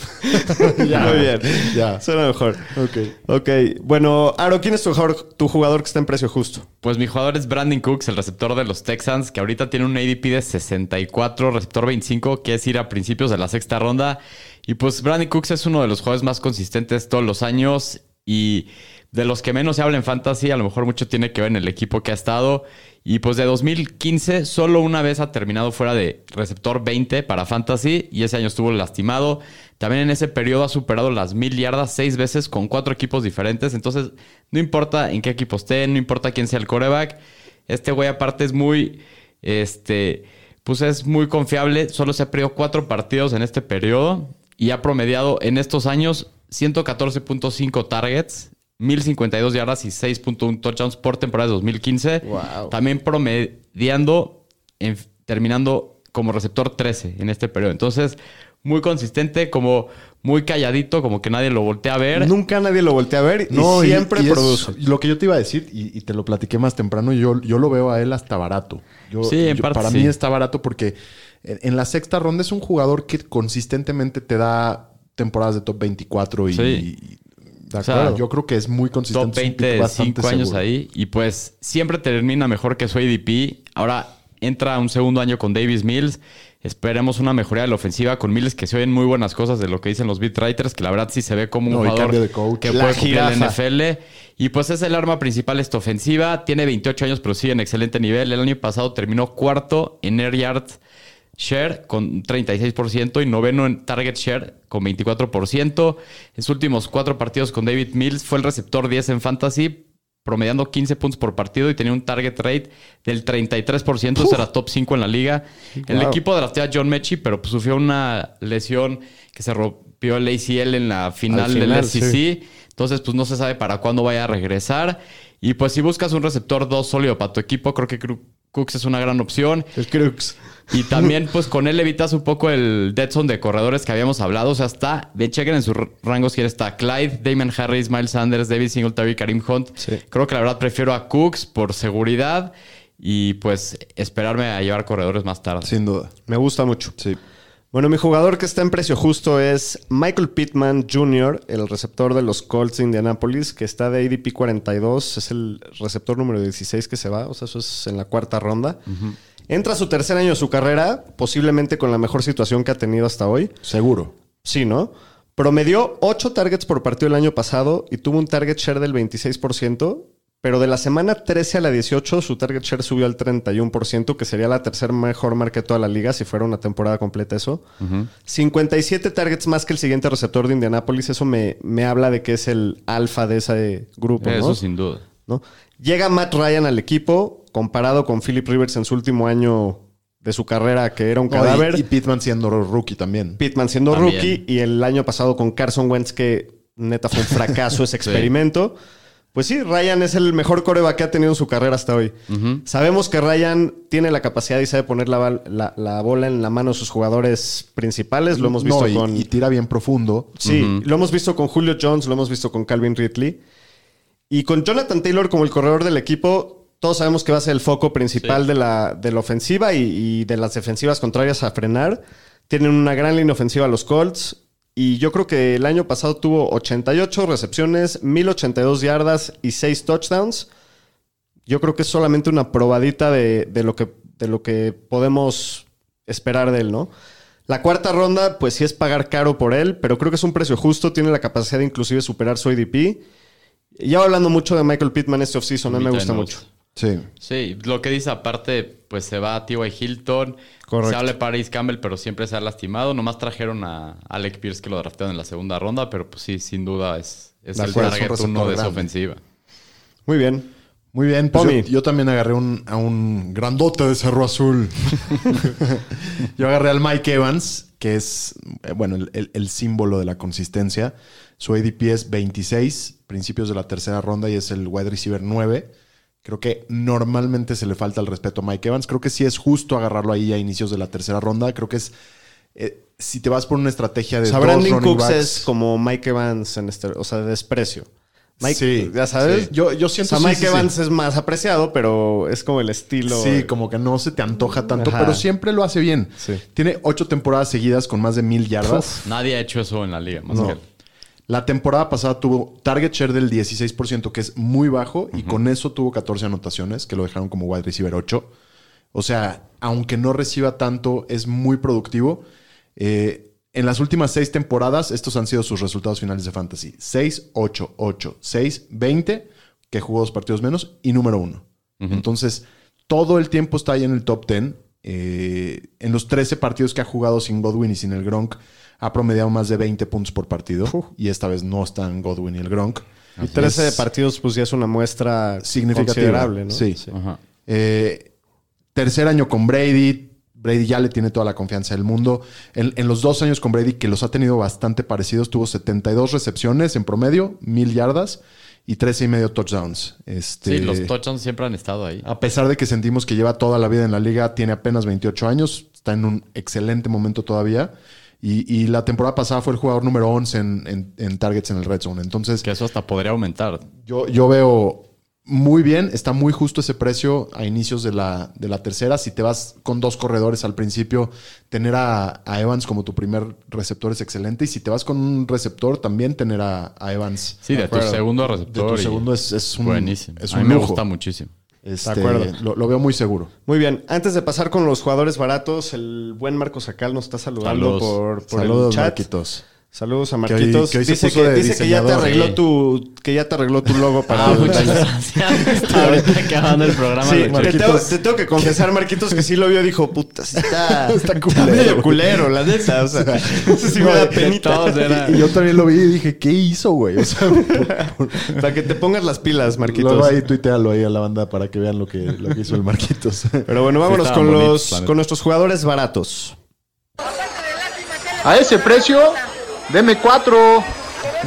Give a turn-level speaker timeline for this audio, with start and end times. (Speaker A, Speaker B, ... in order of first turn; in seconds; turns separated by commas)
Speaker A: 0.2-6.7, Speaker B: 0.5-2.0, Speaker B: 2.7-3.1, Speaker C: 6.8-37.2, Speaker C: 37.7-62.3, Speaker A: 52.2-52.8, Speaker A: 62.1-64.8, Speaker B: 63.5-80.6, Speaker C: 69.2-70.1, Speaker C: 76.5-76.9, Speaker C: 77.8-78.2, Speaker C: 79.1-100.8, Speaker B: 91.7-93.0, Speaker A: 92.7-93.6, Speaker C: 101.4-129.8, Speaker B: 121.3-122.2, Speaker A: 129.8-130.2, Speaker C: 130.7-145.7, Speaker B: 145.6-146.1, Speaker A: 146.3-147.0, Speaker A: 147.7-158.8, Speaker A: 159.5-163.5, Speaker B: 163.6-164.1, Speaker A: 164.4-177.6, Speaker C: 177.8-178.1, Speaker A: 178.2-184.6, Speaker C: 184.2-185.0, Speaker A: 185.3-191.8, Speaker B: 191.3-193.4, Speaker A: 193.4-198.8, Speaker C: 193.9-194.4, Speaker C: 198.0-198.3, Speaker A: 199.3-202.1, Speaker C: 202.3-202.6, Speaker A: 202.7-209.3, Speaker B: 208.3-210.4, Speaker A: 210.4-213.4, Speaker C: 210.4-210.8, Speaker A: 214.3-230.5, Speaker A: 231.5-236.9, Speaker A: 237.5-243.0, Speaker A: 243.8-246.4, Speaker C: 245.7-246.4, Speaker B: 246.8-247.1, Speaker C: 247.2-259.2, Speaker A: 250.7-251.1, Speaker B: 257.6-258.9, Speaker A: 260.1-260.5, Speaker B: 260.9-275.7, Speaker A: 261.3-261.7, Speaker B: 276.2-281.9, Speaker B: 282.6-285.5, Speaker A: 284.2-287.9, Speaker A: 288.4-289.5, Speaker B: 288.4-290.7, Speaker A: 290.0-293.5, Speaker B: 293.1-299.0, Speaker A: 294.7-295.2, Speaker A: 298.6-299.0, Speaker C: 299.0-300.6, Speaker A: 300.3-300.6, Speaker B: 301.3-308.3, Speaker B: 308.9-312.2, Speaker B: 312.8-333.8, Speaker A: 333.3-336.9, Speaker B: 335.4-336.8, Speaker C: 336.9-337.2, Speaker B: 337.5-338.1, Speaker B: 338.8-350.9, Speaker C: 350.5-352.1, Speaker B: 352.1-362.5, Speaker C: 362.4-363.7, Speaker B: 363.8-380.8, Speaker C: 377.5-379.1, Speaker A: 377.5-378.0, Speaker C: 379.6-381.3, Speaker B: 381.6-383.3, Speaker A: 381.8-382.3, Speaker A: 383.5-389.1, Speaker C: 387.4-388.0, Speaker B: 388.3-389.4, Speaker A: 389.7-396.2, Speaker B: 390.3-392.1, Speaker C: 392.0-392.4, Speaker C: 394.1-397.8, Speaker B: 394.2-394.9, Speaker B: 395.7-396.1, Speaker A: 397.0-405.0, Speaker B: 397.3-398.6, Speaker B: 400.7-402.2, Speaker B: 403.0-404.1, Speaker C: 403.8-405.3, Speaker B: 405.0-408.3, Speaker A: 407.4-410.2, Speaker B: 409.7-413.5, Speaker A: 413.5-416.4, Speaker C: 413.9-414.9, Speaker D: 418.2-420.7